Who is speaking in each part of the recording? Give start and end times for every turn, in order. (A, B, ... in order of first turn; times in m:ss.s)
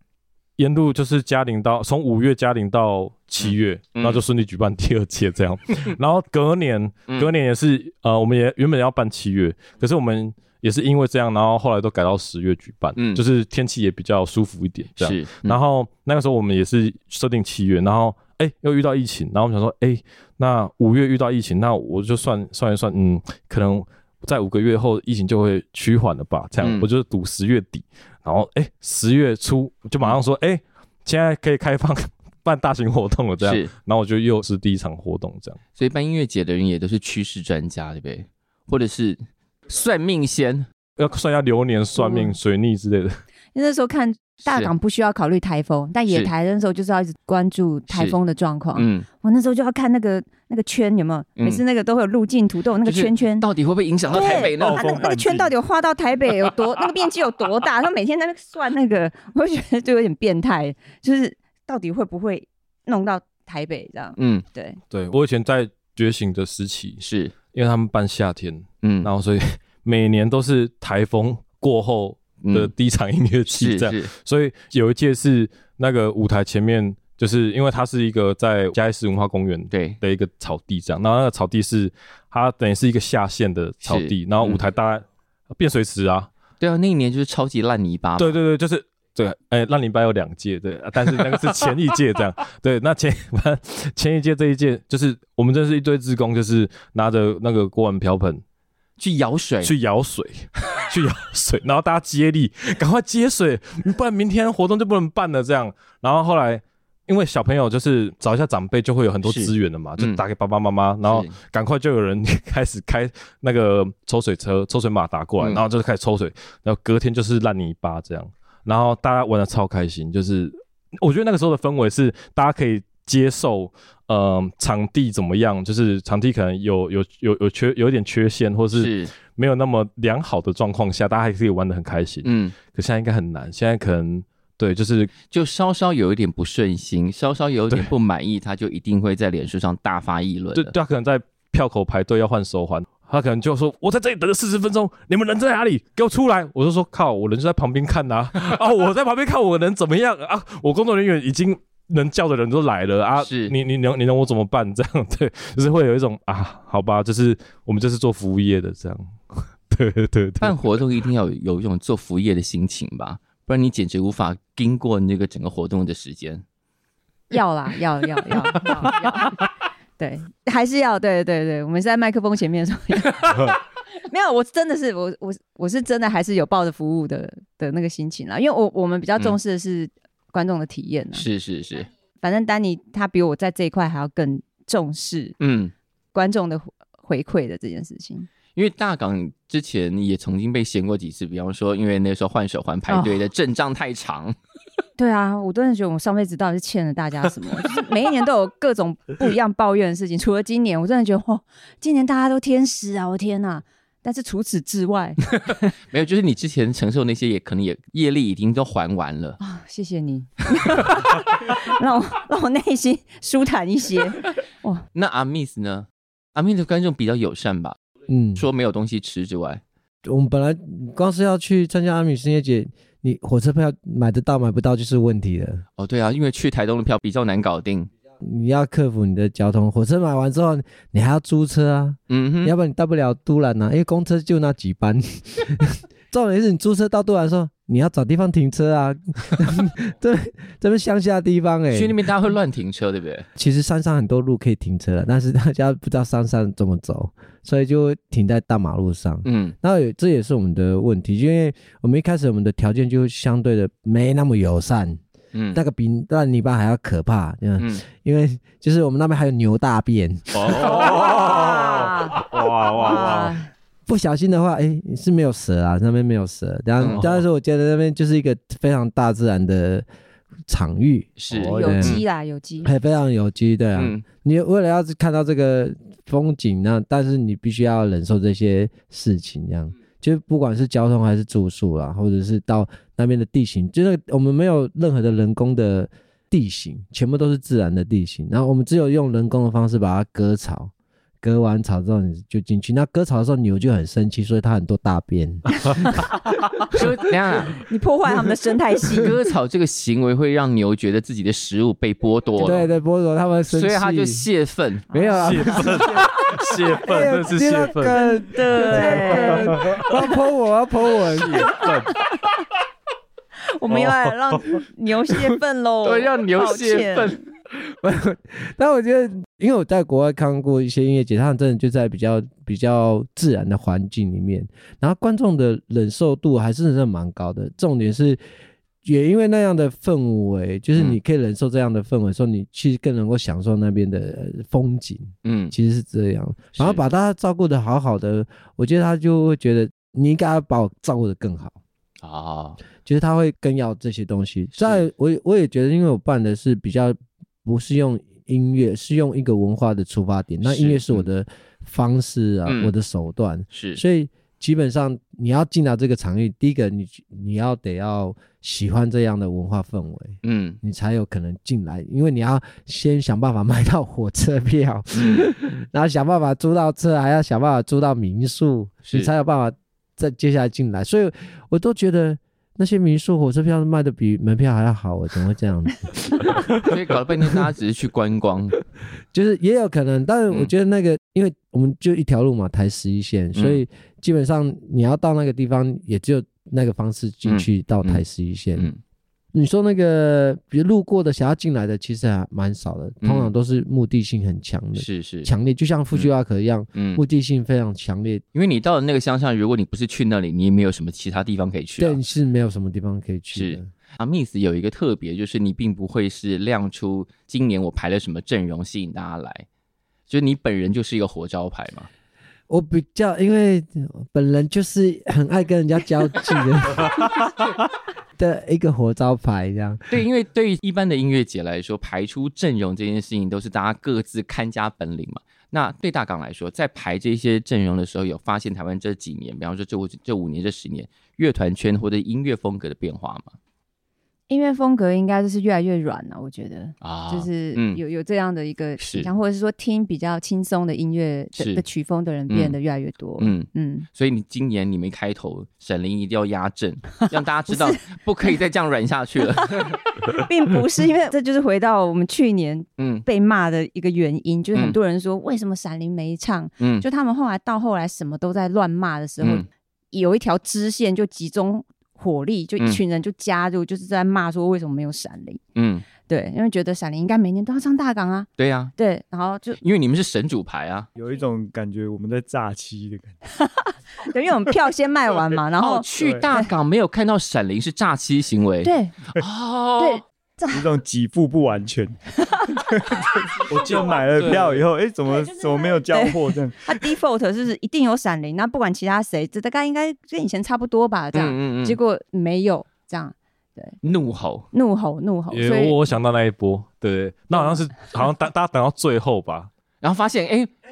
0:00.6-0:35.6 A
0:03.4-0:04.2 B
0:13.0-0:13.2 B
0:15.0-0:15.6 B
0:26.6-0:26.9 B
0:33.4-0:33.7 B
0:35.8-0:40.7 B
0:41.0-0:43.2 A
0:42.0-0:42.3 C
0:43.5-0:53.5 C
0:44.5-0:44.7 B
0:47.9-0:48.2 B
0:48.8-0:49.1 B
0:51.4-0:51.6 B
0:52.8-0:55.0 B
0:54.1-1:04.8 C
0:54.1-0:55.5 D
1:04.2-1:04.4 B
1:04.9-1:26.3 A
1:07.0-1:07.4 B
1:08.8-1:09.1 B
1:12.4-1:12.7 B
1:13.5-1:14.1 B
1:19.7-1:20.0 B
1:23.8-1:24.6 B
1:26.6-1:28.4 B
1:28.2-1:38.4 A
1:39.0-1:39.7 B
1:39.6-2:15.1 A
1:49.2-1:50.2 B
1:51.0-1:51.4 B
2:08.7-2:09.1 B
2:12.2-2:12.6 B
2:15.3-2:20.7 B
2:20.5-2:40.6 A
2:33.2-2:33.6 B
2:40.4-2:46.4 B
2:47.3-2:49.4 C
2:50.0-3:01.3 C
3:01.1-3:01.9 B
3:02.2-3:05.4 C
3:05.4-3:05.7 B
3:06.1-3:08.3 C
3:08.6-3:14.4 B
3:12.9-3:13.2 C
3:15.0-3:25.6 C
3:25.9-3:29.4 B
3:29.4-3:34.8 C
3:35.0-3:37.8 B
3:38.1-3:38.4 E
3:38.4-3:39.6 B
3:40.0-3:45.6 E
3:45.8-3:47.9 B
3:48.2-4:02.0 E
3:52.1-3:52.6 B
4:01.7-4:03.3 B
4:03.4-4:15.0 E
4:09.2-4:09.6 B
4:15.3-4:15.6 B
4:15.5-4:20.7 E
4:20.4-4:23.3 A
4:20.7-4:22.2 C
4:22.6-4:23.0 D
4:22.8-4:23.5 C
4:23.9-4:29.9 E
4:26.8-4:27.2 B
4:30.5-4:32.0 E
4:31.2-4:32.0 B
4:31.5-4:32.7 C
4:32.6-4:56.8 E
4:33.8-4:34.0 B
4:56.7-4:57.6 B
4:57.5-4:59.1 C
4:59.0-5:02.7 B
5:02.4-5:04.3 E
5:03.5-5:04.9 B
5:04.9-5:11.6 E
5:05.0-5:06.3 C
5:05.1-5:08.0 A
5:07.8-5:10.1 C
5:11.6-5:12.2 C
5:13.5-5:17.2 C
5:15.8-5:17.2 B
5:17.7-5:28.2 E
5:28.8-5:41.6 E
5:35.2-5:35.5 B
5:36.6-5:36.8 B
5:42.0-5:42.6 B
5:42.8-6:16.5 E
5:44.5-5:44.9 B
5:50.4-5:51.1 B
5:52.5-5:52.7 B
5:53.5-5:53.8 B
6:00.2-6:00.6 B
6:04.9-6:05.3 B
6:16.6-6:18.6 B
6:19.1-6:28.7 E
6:23.4-6:23.6 B
6:27.2-6:28.0 B
6:29.3-6:38.2 E
6:33.0-6:33.3 B
6:34.8-6:35.3 B
6:36.8-6:37.0 B
6:38.3-6:42.0 B
6:41.8-6:43.7 E
6:43.3-6:49.5 B
6:50.1-6:51.9 B
6:52.5-6:57.5 E
6:58.2-7:00.0 E
6:59.9-7:13.4 B
7:14.3-7:23.9 C
7:16.8-7:17.8 B
7:18.8-7:19.1 B
7:21.4-7:21.6 B
7:22.3-7:22.6 B
7:23.2-7:29.8 B
7:27.0-7:27.8 C
7:29.5-7:45.4 C
7:32.8-7:33.0 B
7:36.6-7:36.8 B
7:39.2-7:39.5 B
7:45.6-7:45.9 B
7:46.1-7:49.6 C
7:48.4-7:48.7 B
7:49.6-7:50.9 B
7:51.0-7:53.2 D
7:53.4-7:56.5 C
7:55.6-8:00.0 B
7:56.0-7:56.2 D
7:58.6-7:59.0 C
7:59.8-8:00.6 C
8:00.5-8:02.0 D
8:02.7-8:06.8 D
8:05.7-8:13.8 C
8:11.1-8:11.8 B
8:13.8-8:14.5 B
8:14.5-8:15.8 C
8:15.3-8:19.5 A
8:19.8-8:20.5 B